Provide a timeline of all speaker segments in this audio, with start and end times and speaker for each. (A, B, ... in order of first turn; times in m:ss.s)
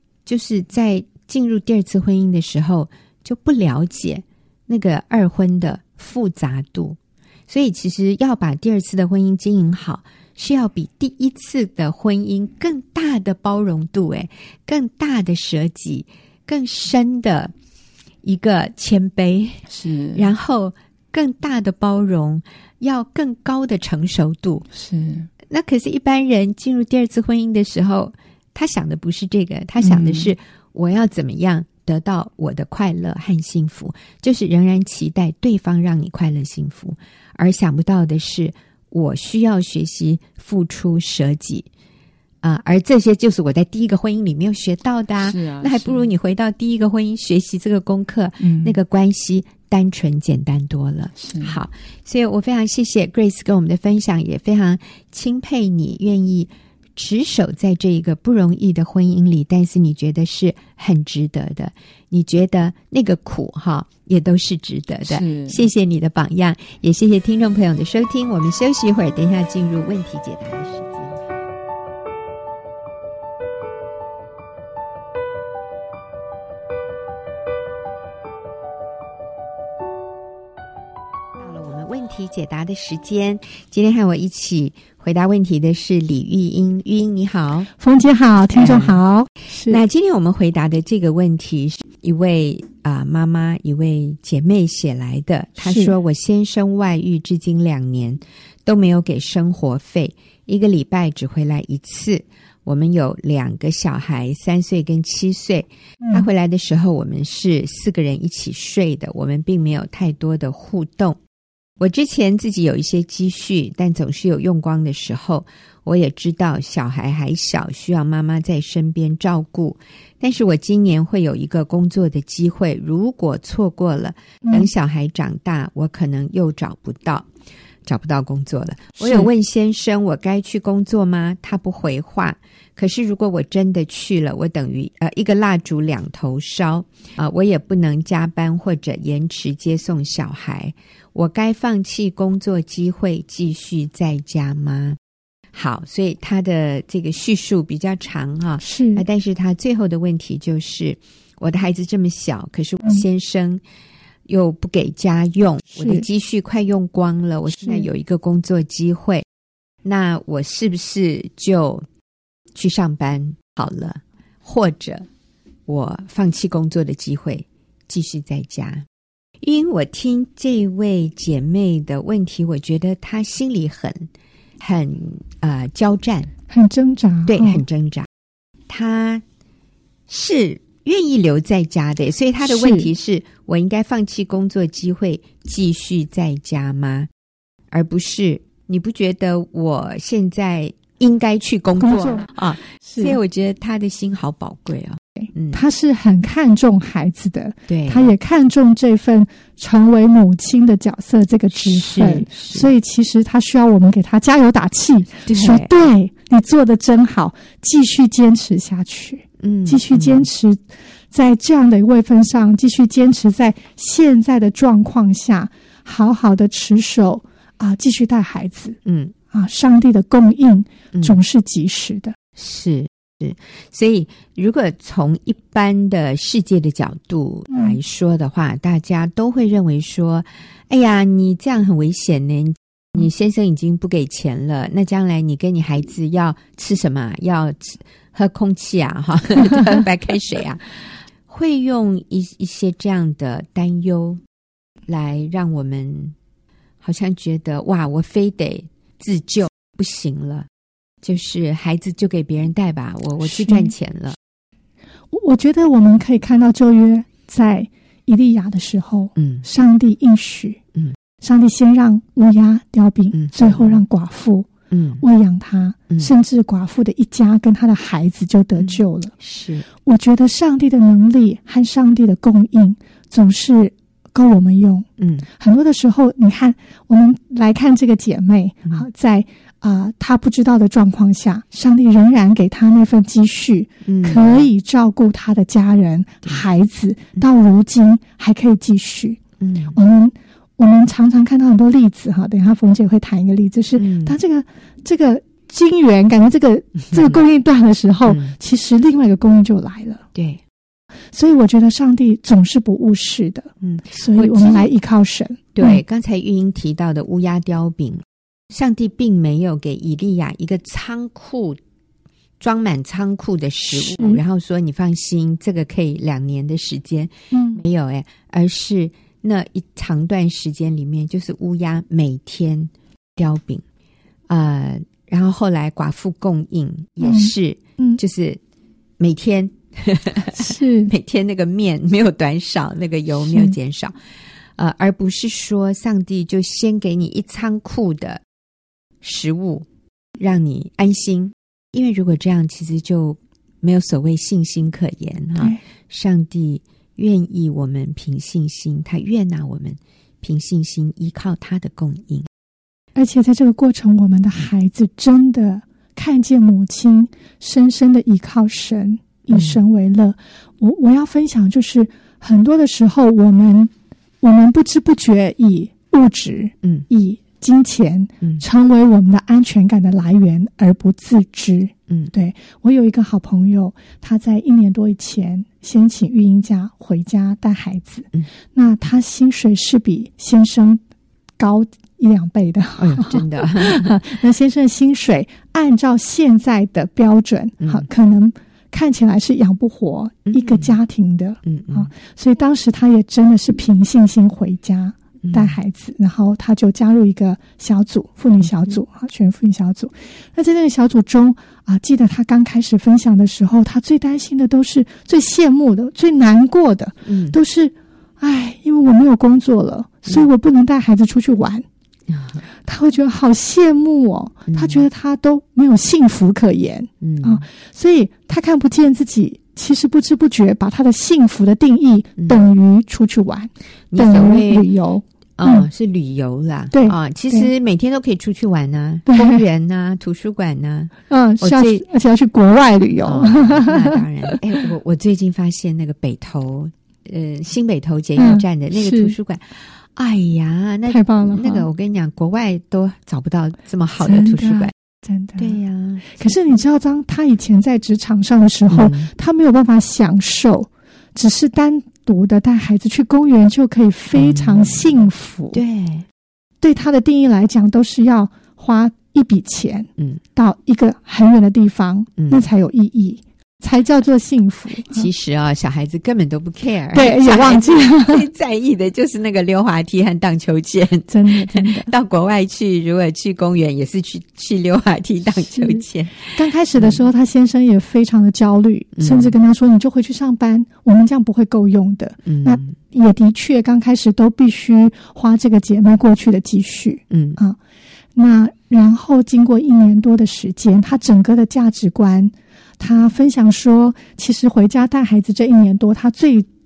0:00.2-0:17.5 A
0:18.2-0:24.6 A
0:19.7-0:20.3 B
0:24.7-0:25.3 B
0:25.5-0:41.7 A
0:29.8-0:30.3 B
0:42.4-1:11.2 A
0:45.2-0:46.1 B
0:48.4-0:48.8 B
0:51.2-0:51.6 B
1:05.1-1:05.6 B
1:21.4-1:27.7 A
1:27.8-1:29.8 C
1:28.5-1:29.0 A
1:29.7-1:51.2 A
1:35.6-1:35.9 C
1:51.8-2:07.3 A
2:04.4-2:04.7 C
2:07.8-2:25.0 A
2:09.0-2:09.3 C
2:25.5-2:33.6 A
2:28.6-2:29.0 C
2:34.3-2:39.2 A
2:35.7-2:36.0 C
2:37.5-2:37.9 C
2:39.8-2:41.8 A
2:42.5-2:45.1 A
2:45.7-2:48.8 A
2:49.4-2:54.1 A
2:54.6-2:56.3 A
2:56.5-2:57.6 C
2:57.3-2:58.1 A
2:58.7-2:59.2 A
3:00.1-3:07.1 A
3:02.4-3:02.9 C
3:07.7-3:15.6 A
3:11.8-3:13.2 C
3:15.2-3:30.6 C
3:17.7-3:18.1 A
3:21.5-3:22.7 A
3:25.2-3:25.7 A
3:29.4-3:30.3 A
3:31.1-3:38.8 C
3:38.8-3:39.1 A
3:39.3-3:42.1 C
3:40.9-3:41.2 A
3:42.4-4:00.6 A
3:47.5-3:47.8 C
4:01.3-4:04.2 A
4:04.9-4:06.1 A
4:06.8-4:10.5 A
4:11.0-4:14.2 A
4:13.2-4:13.7 C
4:15.1-4:20.6 C
4:19.2-4:19.4 A
4:21.2-4:24.5 C
4:23.1-4:23.8 A
4:24.7-4:25.0 A
4:25.0-4:29.1 C
4:28.6-4:29.7 A
4:29.8-4:49.2 C
4:35.0-4:35.3 A
4:43.8-4:44.5 A
4:49.4-4:49.8 A
4:49.7-5:00.0 C
4:53.8-4:54.2 A
4:56.9-4:57.2 A
4:58.0-4:58.3 A
5:00.1-5:00.4 A
5:01.1-5:05.8 C
5:03.6-5:04.7 A
5:05.5-5:11.6 A
5:12.4-5:23.6 A
5:13.7-5:14.2 C
5:17.3-5:17.6 C
5:24.3-5:28.4 A
5:27.0-5:28.0 C
5:29.0-5:33.9 A
5:30.4-5:30.9 C
5:33.3-5:33.5 C
5:34.6-5:38.2 A
5:39.0-5:39.6 A
5:40.2-5:52.3 A
5:53.0-6:03.7 C
5:59.3-5:59.6 A
6:04.2-6:20.8 C
6:21.4-6:51.6 C
6:22.8-6:24.0 A
6:30.3-6:30.7 A
6:31.4-6:31.9 A
6:35.2-6:35.6 A
6:38.4-6:38.7 A
6:47.0-6:47.4 A
6:52.1-6:52.4 A
6:52.6-7:05.7 C
6:54.5-6:54.8 A
6:57.0-6:57.4 A
7:03.9-7:04.7 A
7:05.4-7:11.8 A
7:06.7-7:07.5 C
7:09.1-7:09.4 C
7:11.1-7:14.3 C
7:13.0-7:24.7 A
7:18.2-7:19.2 C
7:20.9-7:21.7 C
7:24.0-7:25.6 C
7:25.4-7:26.3 A
7:26.1-7:35.6 C
7:28.7-7:29.1 A
7:34.1-7:35.0 A
7:35.5-7:36.0 A
7:36.6-7:45.1 C
7:42.2-7:42.5 A
7:44.9-7:57.0 A
7:46.9-7:48.3 C
7:51.1-7:51.9 C
7:55.3-8:07.6 C
7:59.0-7:59.3 A
8:02.2-8:02.8 A
8:07.1-8:07.4 A
8:08.2-8:16.5 C